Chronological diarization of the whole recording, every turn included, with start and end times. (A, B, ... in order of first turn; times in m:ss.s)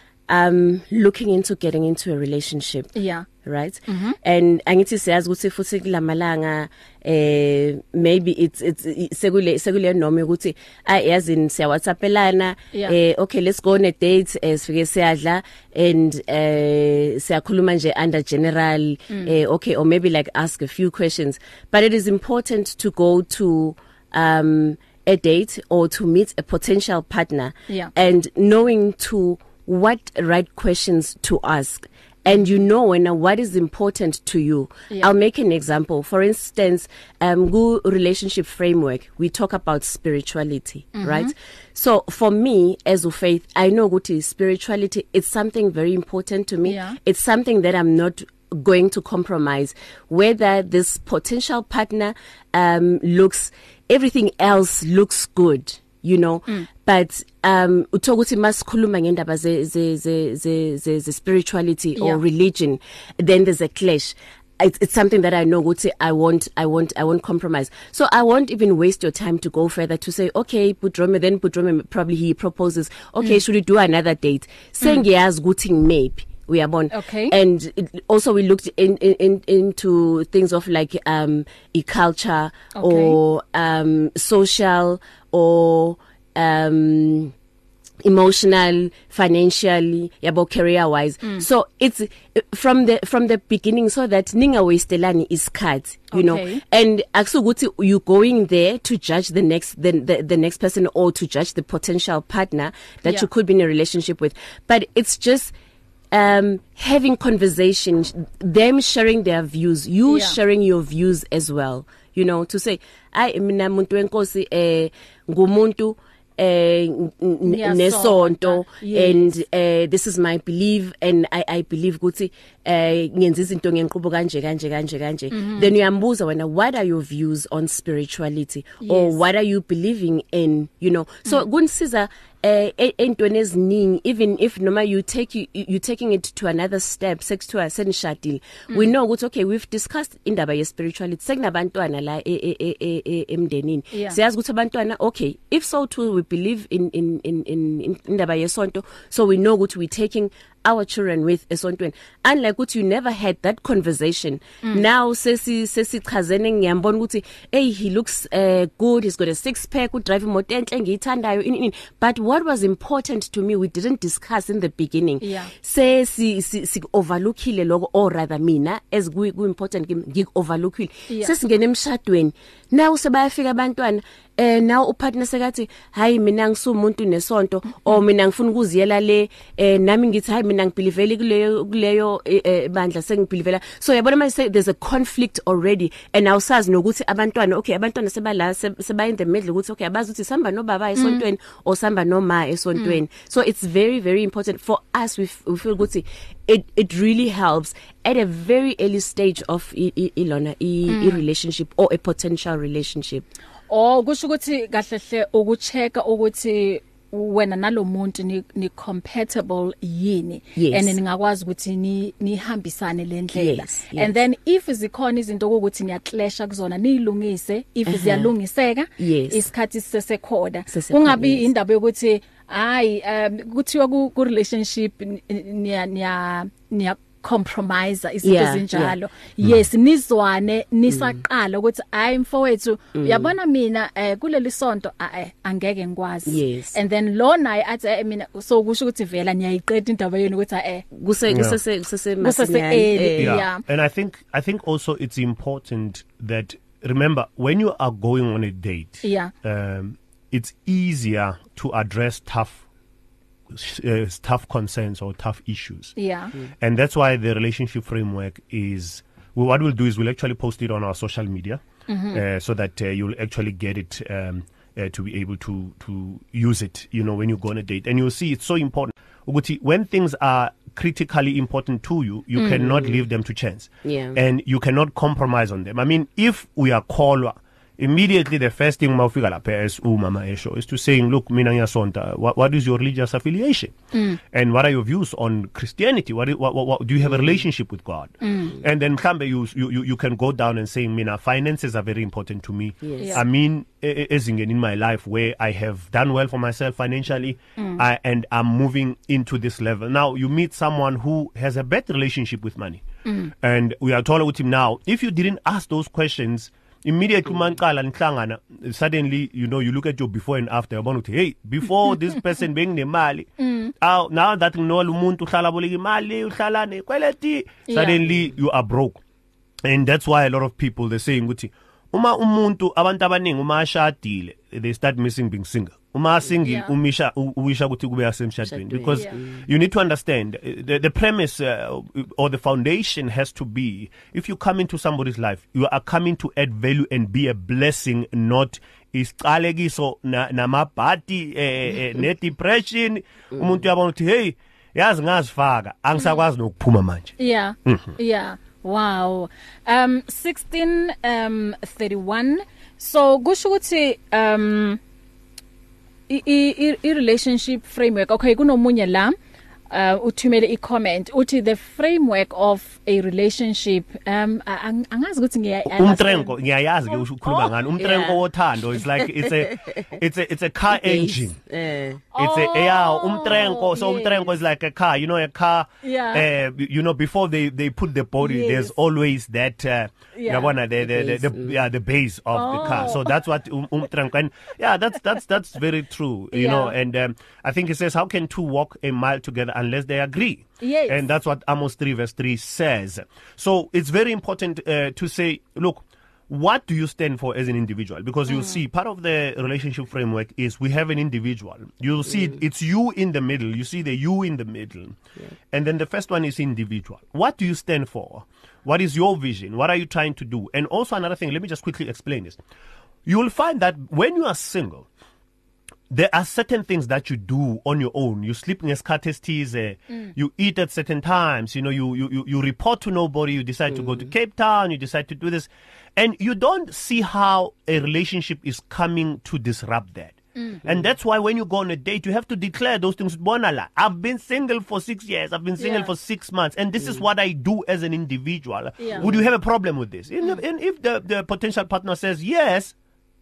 0:00.3-0:02.9 A
0:02.9-0:03.3 B
0:03.4-1:27.3 A
0:03.9-0:04.2 B
0:19.1-0:19.3 B
0:40.9-0:41.3 B
0:46.6-0:47.0 B
1:02.0-1:02.2 B
1:16.9-1:17.3 B
1:22.7-1:23.2 B
1:28.0-1:45.5 A
1:36.1-1:36.6 B
1:46.1-3:23.3 A
1:50.1-1:50.4 B
1:57.4-1:59.3 B
2:05.3-2:05.7 B
2:08.8-2:09.2 B
2:18.7-2:18.9 B
2:23.9-2:24.2 B
2:45.2-2:45.5 B
2:51.1-2:51.4 B
3:11.0-3:11.2 B
3:12.8-3:13.0 B
3:20.9-3:21.2 B
3:23.7-4:00.8 B
3:30.6-3:31.0 A
3:33.3-3:34.1 A
3:37.9-3:38.3 A
3:39.0-3:39.5 A
3:40.7-3:41.5 A
3:48.2-3:49.0 A
3:50.9-3:51.2 A
3:52.9-3:53.3 A
3:56.2-3:56.8 A
4:00.9-4:03.4 A
4:01.3-4:01.6 C
4:02.2-4:03.6 B
4:03.2-4:12.6 C
4:09.0-4:09.3 B
4:13.5-4:16.0 C
4:16.0-4:16.3 B
4:16.5-5:02.8 C
4:21.9-4:22.2 B
4:32.4-4:32.6 B
4:32.5-4:33.0 A
4:33.8-4:34.2 A
4:43.9-4:44.2 B
4:47.0-4:47.4 A
4:48.2-4:48.5 B
4:52.8-4:53.2 A
5:03.0-5:03.3 B
5:03.4-5:19.0 C
5:13.4-5:13.7 B
5:17.7-5:18.0 B
5:19.6-5:47.9 C
5:26.4-5:26.7 B
5:28.4-5:29.4 A
5:43.3-5:43.6 A
5:47.2-5:54.8 B
5:56.1-5:59.1 B
5:59.7-6:06.3 B
6:05.7-6:11.4 C
6:06.9-6:07.5 B
6:07.8-6:08.2 A
6:09.0-6:09.8 A
6:10.7-6:12.0 A
6:12.1-6:14.2 B
6:12.2-6:45.0 C
6:15.8-6:16.2 B
6:18.2-6:18.7 B
6:20.1-6:20.5 B
6:20.8-6:21.6 A
6:22.3-6:23.1 B
6:26.3-6:26.7 B
6:30.6-6:31.0 B
6:38.3-6:38.6 B
6:45.5-6:52.4 C
6:53.0-6:54.9 C
6:55.9-7:22.7 C
7:03.7-7:04.0 A
7:15.6-7:15.9 B
7:19.0-7:19.3 A